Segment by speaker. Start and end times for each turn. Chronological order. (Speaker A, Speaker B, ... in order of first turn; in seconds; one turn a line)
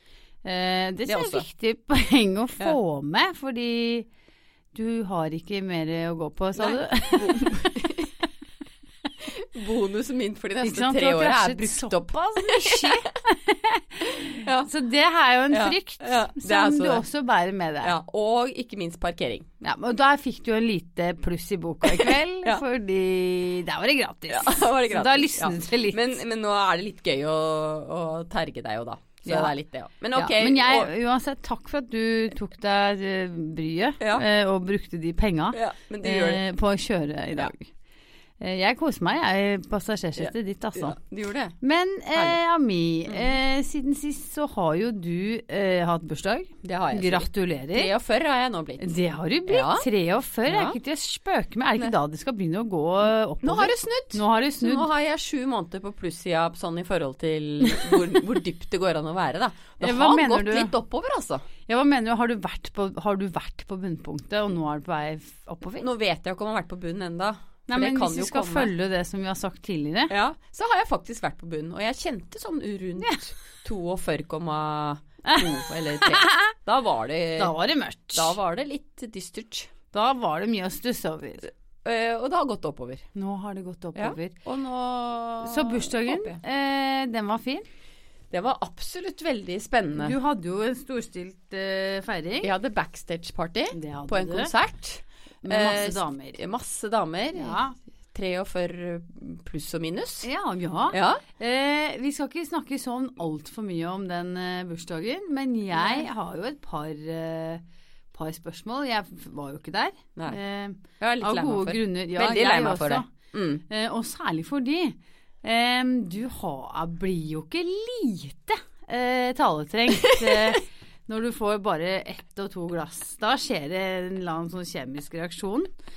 Speaker A: 0.4-4.1
Speaker B: 1.1-1.4
Speaker A: 4.7-8.0
Speaker B: 6.6-8.1
Speaker B: 9.2-13.1
Speaker A: 10.6-17.9
Speaker B: 14.2-14.7
Speaker B: 15.5-17.1
Speaker B: 17.8-19.5
Speaker A: 19.6-26.1
Speaker B: 21.8-22.6
Speaker B: 24.3-30.9
Speaker A: 29.2-29.5
Speaker A: 30.1-37.7
Speaker B: 35.5-36.4
Speaker A: 38.4-41.0
Speaker B: 40.2-41.5
Speaker A: 41.6-47.9
Speaker B: 43.1-43.4
Speaker B: 46.6-48.9
Speaker A: 48.8-54.9
Speaker B: 49.5-49.9
Speaker B: 50.5-50.8
Speaker B: 53.4-61.5
Speaker A: 57.6-58.1
Speaker A: 59.8-60.7
Speaker A: 61.7-65.9
Speaker B: 65.8-68.7
Speaker A: 67.7-70.1
Speaker B: 70.1-77.5
Speaker A: 75.2-76.5
Speaker A: 77.4-78.3
Speaker B: 78.1-79.7
Speaker A: 79.9-81.5
Speaker B: 81.8-83.0
Speaker A: 83.1-84.4
Speaker B: 84.0-86.4
Speaker A: 85.4-87.7
Speaker B: 88.3-90.1
Speaker A: 89.9-92.5
Speaker B: 92.4-97.6
Speaker A: 93.7-94.5
Speaker A: 95.4-96.4
Speaker A: 97.3-97.8
Speaker B: 98.1-100.3
Speaker A: 100.2-107.6
Speaker B: 100.9-101.2
Speaker B: 105.7-106.1
Speaker A: 108.1-113.1
Speaker B: 111.0-113.6
Speaker A: 113.7-125.7
Speaker B: 120.0-120.6